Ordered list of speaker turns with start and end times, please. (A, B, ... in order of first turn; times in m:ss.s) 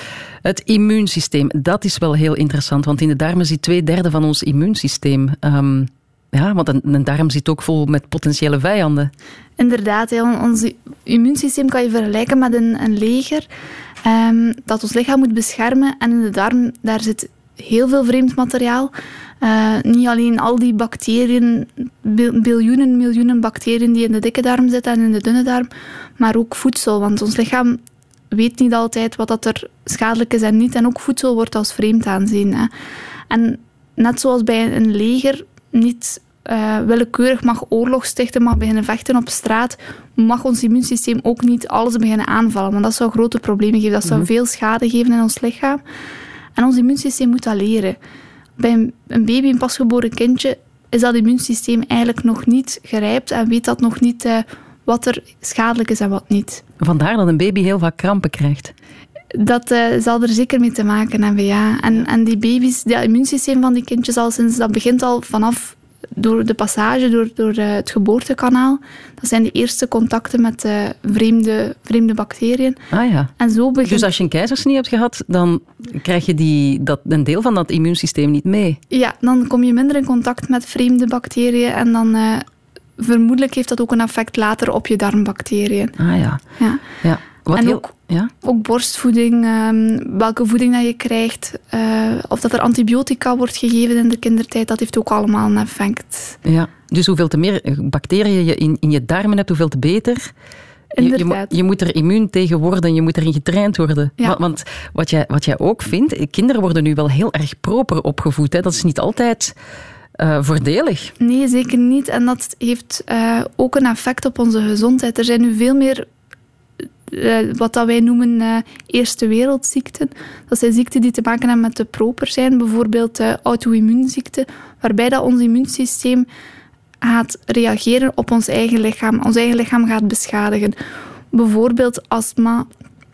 0:00.4-0:09.1 A
0:09.6-0:13.5 B
0:14.0-0:27.8 B
0:28.3-0:32.7 B
0:33.3-0:45.8 B
0:46.6-0:48.0 B
0:48.6-0:56.6 B
0:56.8-0:58.7 A
0:59.4-1:12.8 B
1:12.9-1:13.3 A
1:13.4-1:14.1 B
1:13.8-1:18.8 A
1:18.9-1:22.4 B
1:23.0-1:26.0 B
1:26.0-1:28.3 A
1:27.6-1:27.9 B
1:28.4-1:36.4 B
1:36.4-1:40.3 A
1:40.9-1:41.5 B
1:41.0-1:49.6 A
1:50.2-1:51.1 A
1:51.2-1:56.1 B
1:57.1-2:06.3 B
2:07.0-2:10.8 B
2:11.3-2:12.7 B